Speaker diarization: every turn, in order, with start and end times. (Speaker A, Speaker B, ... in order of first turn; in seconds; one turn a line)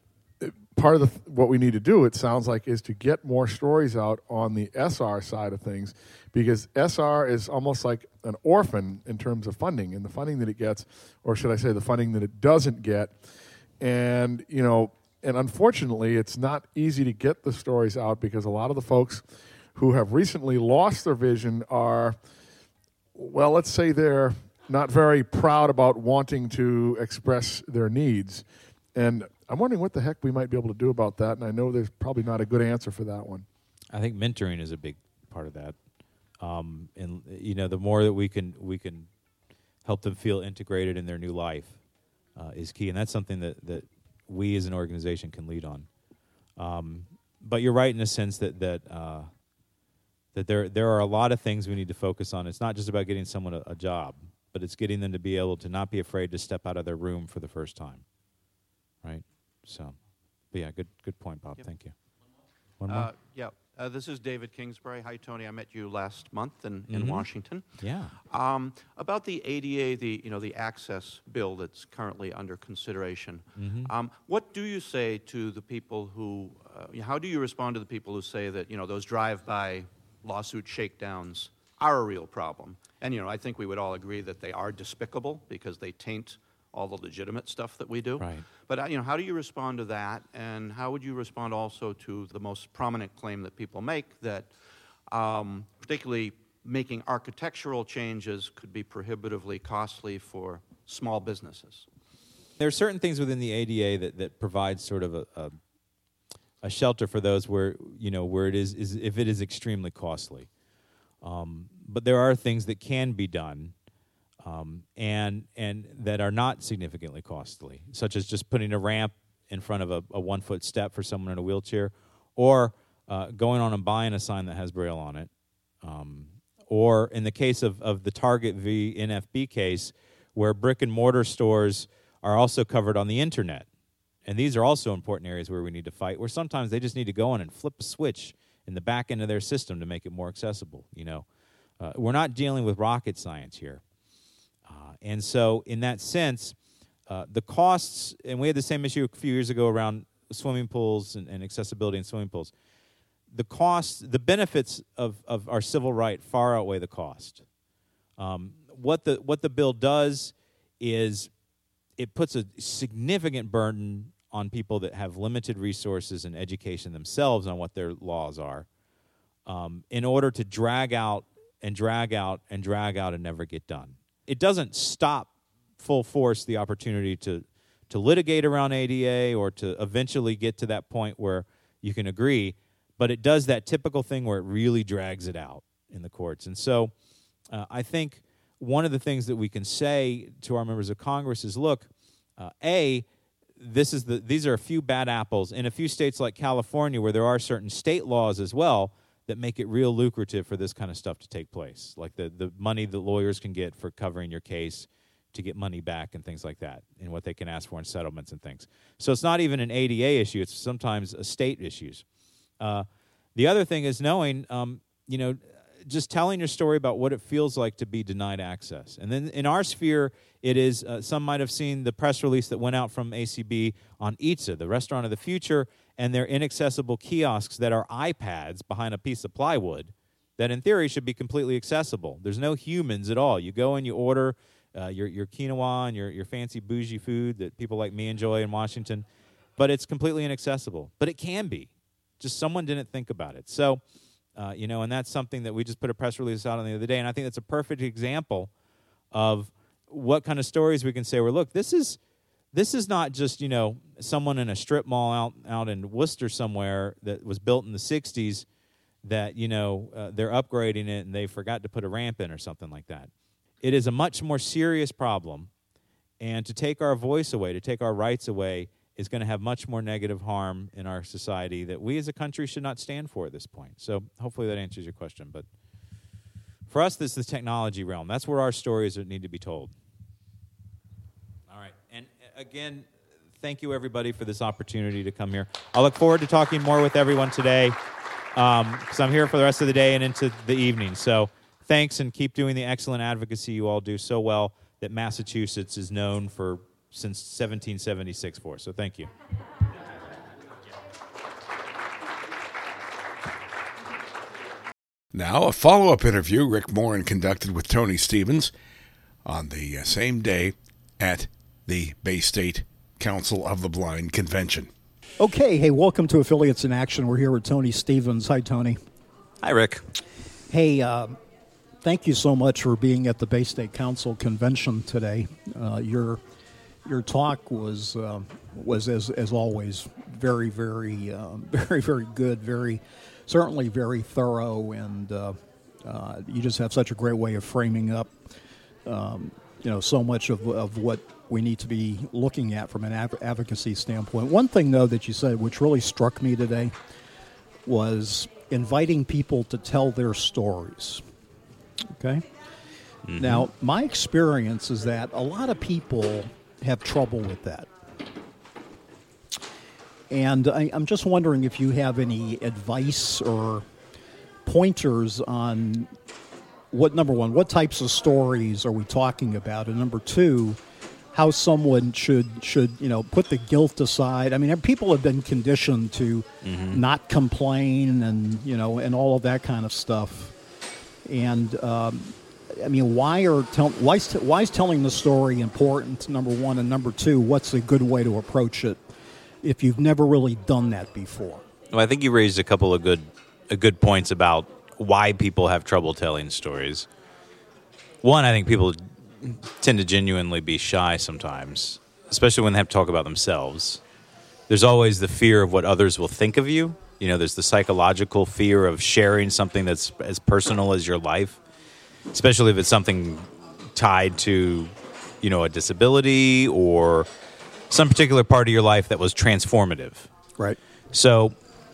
Speaker A: 0.4-13.1
Speaker A: 13.8-19.2
Speaker A: 19.8-22.2
Speaker A: 23.2-33.5
Speaker B: 33.9-35.8
Speaker B: 36.4-39.1
Speaker B: 39.9-41.8
Speaker B: 42.4-45.9
Speaker B: 46.6-49.3
Speaker B: 50.3-58.0
Speaker B: 59.0-60.0
Speaker B: 60.5-61.9
Speaker B: 62.8-63.1
Speaker C: 62.9-67.6
Speaker B: 66.9-67.2
Speaker B: 67.8-68.2
Speaker C: 68.3-94.5
Speaker B: 73.6-73.9
Speaker B: 88.2-88.5
Speaker C: 95.1-101.8
Speaker B: 102.6-105.5
Speaker B: 106.6-110.5
Speaker B: 111.2-113.7
Speaker B: 114.4-125.3
Speaker B: 125.8-133.7
Speaker B: 134.2-141.2
Speaker B: 141.8-143.8
Speaker B: 144.7-146.6
Speaker B: 147.1-152.5
Speaker B: 153.3-157.4
Speaker B: 158.2-161.3
Speaker B: 162.0-168.7
Speaker B: 169.5-186.9
Speaker B: 187.5-193.1
Speaker B: 193.6-212.0
Speaker B: 212.6-239.1
Speaker B: 239.6-243.8
Speaker B: 244.4-248.5
Speaker B: 249.1-252.0
Speaker B: 252.5-258.5
Speaker B: 259.0-263.1
Speaker B: 263.6-265.5
Speaker B: 266.2-275.5
Speaker B: 276.7-279.7
Speaker B: 281.5-282.9
Speaker B: 283.4-287.8
Speaker B: 288.4-299.1
Speaker D: 305.1-308.5
Speaker D: 309.2-314.7
Speaker E: 315.2-318.8
Speaker B: 319.4-319.9
Speaker E: 320.5-321.2
Speaker E: 321.8-326.2
Speaker E: 326.9-338.2
Speaker E: 338.9-346.7
Speaker E: 347.6-351.0
Speaker E: 351.9-352.2
Speaker B: 353.1-353.5
Speaker E: 353.2-357.7
Speaker E: 360.1-363.6
Speaker E: 364.4-365.9
Speaker E: 366.7-370.6
Speaker E: 371.1-380.3
Speaker B: 376.4-376.8
Speaker E: 381.1-388.8
Speaker E: 389.4-391.4
Speaker B: 391.7-396.9
Speaker B: 398.0-403.8
Speaker B: 404.5-411.4
Speaker B: 412.1-414.7
Speaker B: 415.2-417.1
Speaker B: 417.7-420.1
Speaker B: 420.9-421.4